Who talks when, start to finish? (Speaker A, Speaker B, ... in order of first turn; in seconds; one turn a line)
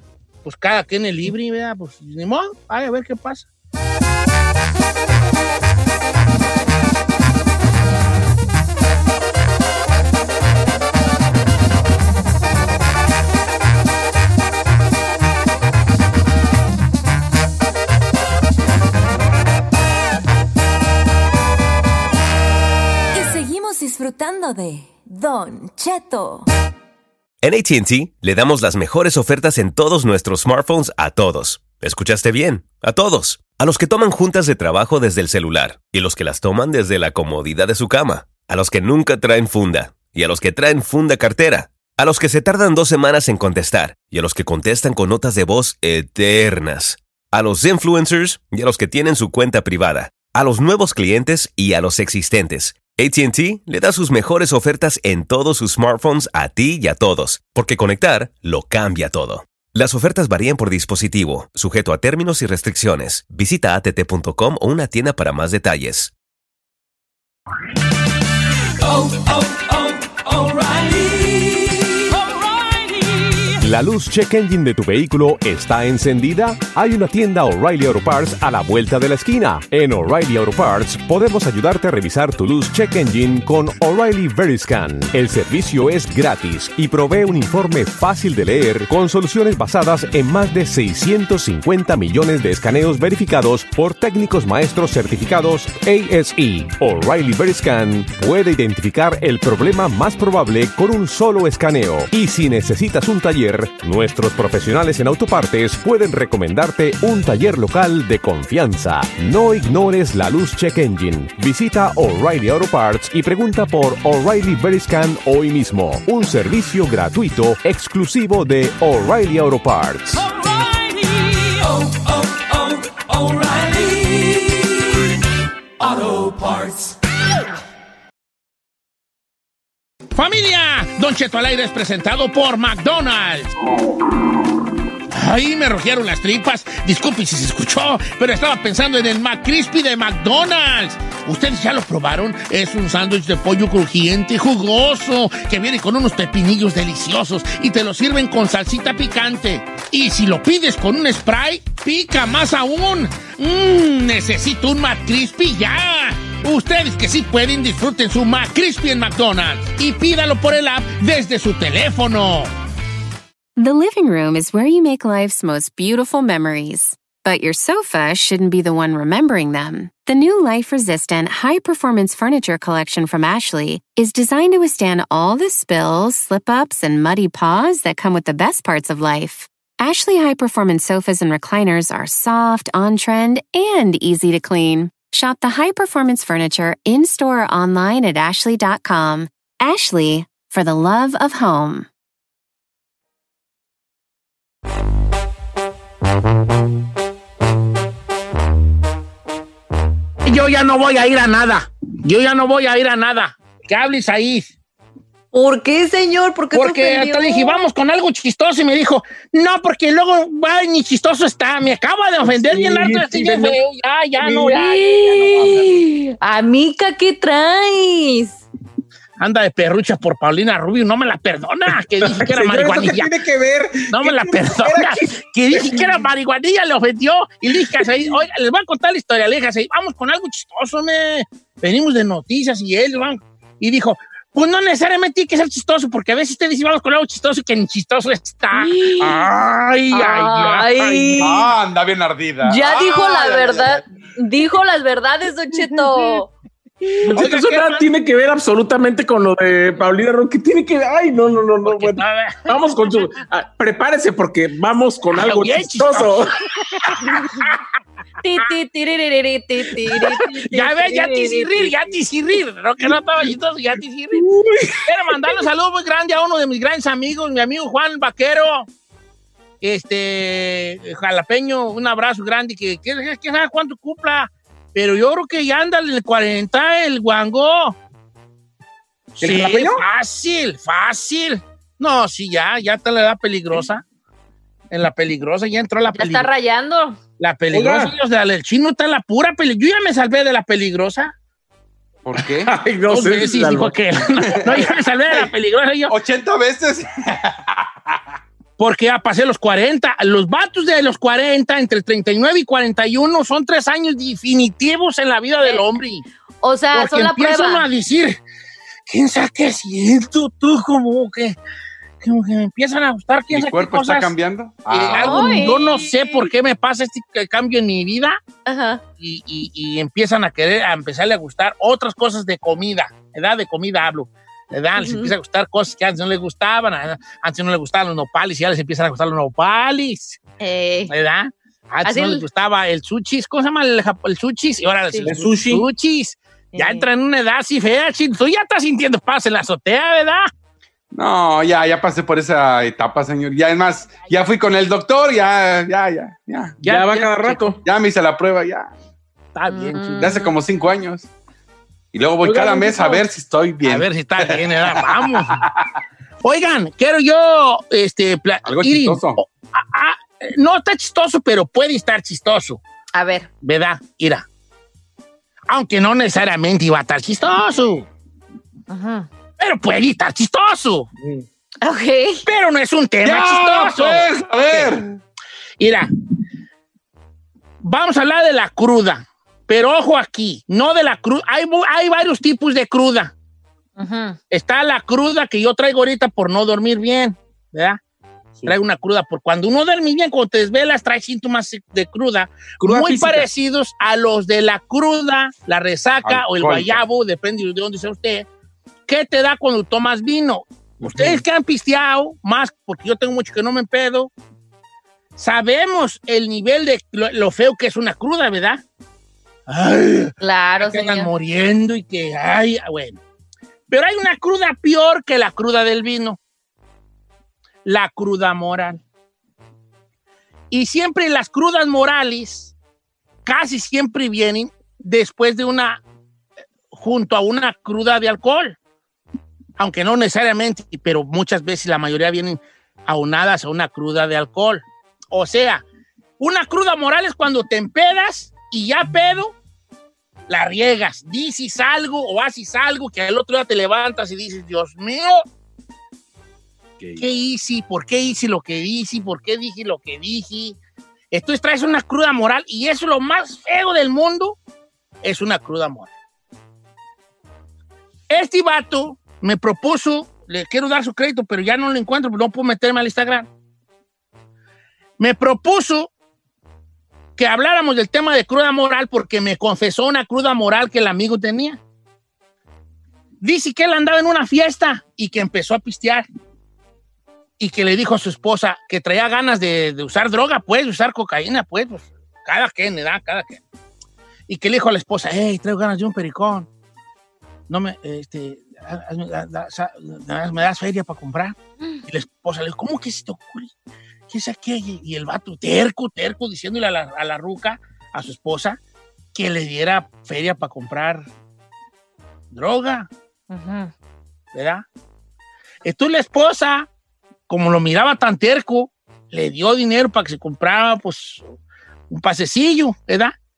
Speaker A: 0.5-3.5
Speaker B: 23.1-26.5
Speaker C: 27.4-66.1
Speaker D: 73.6-120.3
Speaker B: 122.5-124.5
Speaker B: 126.0-126.7
Speaker A: 130.2-133.5
Speaker A: 135.1-162.5
Speaker E: 163.6-191.9
Speaker A: 200.3-204.5
Speaker F: 205.3-207.6
Speaker A: 206.5-215.6
Speaker G: 212.2-213.6
Speaker F: 214.5-218.4
Speaker A: 219.2-223.1
Speaker G: 222.0-226.1
Speaker A: 223.9-241.3
Speaker F: 238.5-239.3
Speaker F: 239.9-241.5
Speaker H: 241.2-243.8
Speaker F: 242.4-246.3
Speaker G: 247.0-256.3
Speaker A: 247.1-247.9
Speaker A: 251.6-252.6
Speaker A: 255.2-256.2
Speaker A: 256.9-257.5
Speaker F: 258.2-261.7
Speaker G: 260.0-260.7
Speaker A: 260.5-264.3
Speaker G: 264.1-264.8
Speaker A: 264.8-268.7
Speaker A: 269.6-277.8
Speaker A: 279.2-283.8
Speaker G: 279.2-279.8
Speaker A: 284.7-286.3
Speaker F: 285.9-287.0
Speaker A: 287.2-291.1
Speaker G: 287.5-287.9
Speaker H: 292.1-292.5
Speaker G: 292.4-293.8
Speaker A: 292.9-295.9
Speaker H: 294.5-295.3
Speaker H: 295.9-298.0
Speaker A: 298.6-306.1
Speaker F: 306.4-307.7
Speaker A: 306.7-308.2
Speaker A: 308.9-311.4
Speaker A: 312.0-314.1
Speaker H: 313.3-315.4
Speaker A: 314.7-318.2
Speaker F: 314.9-316.3
Speaker F: 318.5-318.8
Speaker A: 319.0-330.2
Speaker F: 324.8-325.1
Speaker F: 330.4-330.9
Speaker A: 330.9-340.3
Speaker F: 331.9-332.2
Speaker G: 335.1-335.7
Speaker F: 336.5-336.9
Speaker H: 340.9-346.6
Speaker A: 346.6-347.5
Speaker G: 346.6-347.6
Speaker H: 347.6-348.7
Speaker A: 349.4-350.1
Speaker F: 349.5-350.3
Speaker H: 350.0-351.1
Speaker H: 351.9-354.8
Speaker G: 352.2-353.0
Speaker A: 353.6-355.4
Speaker A: 356.2-362.6
Speaker H: 358.4-359.2
Speaker F: 362.9-363.3
Speaker A: 363.4-364.3
Speaker A: 365.5-367.9
Speaker F: 368.7-369.1
Speaker A: 369.4-370.9
Speaker F: 371.6-372.2
Speaker A: 372.2-374.8
Speaker H: 373.0-375.0
Speaker A: 375.6-375.9
Speaker A: 377.6-383.1
Speaker F: 383.8-384.2
Speaker A: 384.3-387.8
Speaker A: 388.4-398.3
Speaker G: 392.6-393.3
Speaker H: 396.1-396.8
Speaker A: 398.9-404.1
Speaker G: 400.8-401.2
Speaker A: 405.2-408.6
Speaker A: 409.5-413.0
Speaker F: 410.2-411.1
Speaker A: 413.7-416.2
Speaker A: 417.6-418.8
Speaker A: 420.5-422.5
Speaker A: 423.3-425.8
Speaker A: 426.7-428.6
Speaker A: 429.6-435.6
Speaker A: 436.2-439.4
Speaker A: 440.3-445.2
Speaker H: 446.8-447.1
Speaker A: 447.0-450.6
Speaker A: 451.1-454.4
Speaker A: 455.0-455.9
Speaker A: 458.1-463.3
Speaker A: 465.0-465.9
Speaker A: 467.2-471.6
Speaker A: 473.2-476.1
Speaker A: 477.4-483.4
Speaker A: 484.3-486.5
Speaker A: 487.5-491.4
Speaker A: 491.9-493.5
Speaker A: 494.1-498.6
Speaker A: 499.1-501.1
Speaker A: 502.3-502.9
Speaker F: 503.3-503.7
Speaker A: 504.3-504.7
Speaker A: 505.6-506.7
Speaker A: 507.3-511.3
Speaker A: 511.9-513.1